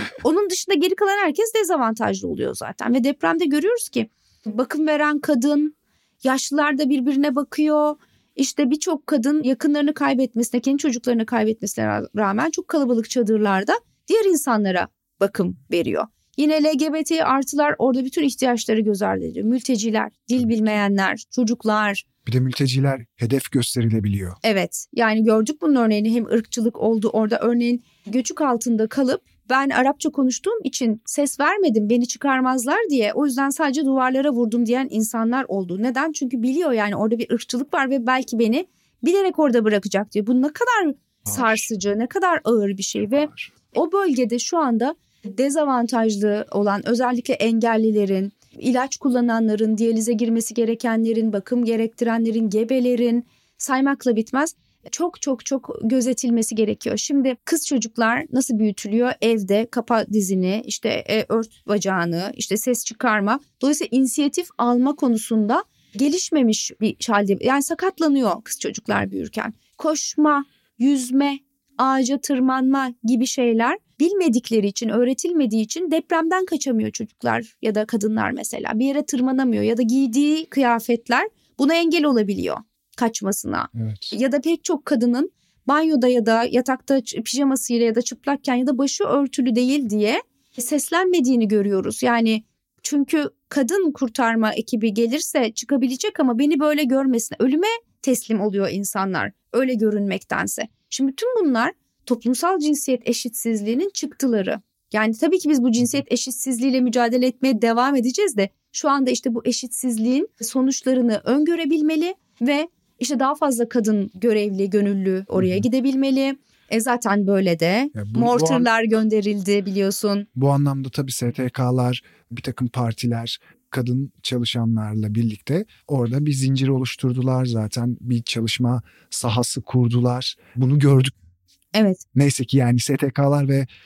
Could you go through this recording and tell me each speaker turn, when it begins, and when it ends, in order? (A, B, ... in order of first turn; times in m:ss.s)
0:00.2-0:22.0 A
0:22.3-0:24.4 B
0:24.4-2:00.3 A
0:41.3-0:41.6 B
0:43.1-0:43.5 B
1:23.7-1:24.2 B
1:55.4-1:55.6 B
1:58.0-1:58.7 B
2:00.4-2:11.2 B
2:11.7-2:12.0 A
2:12.1-2:13.7 B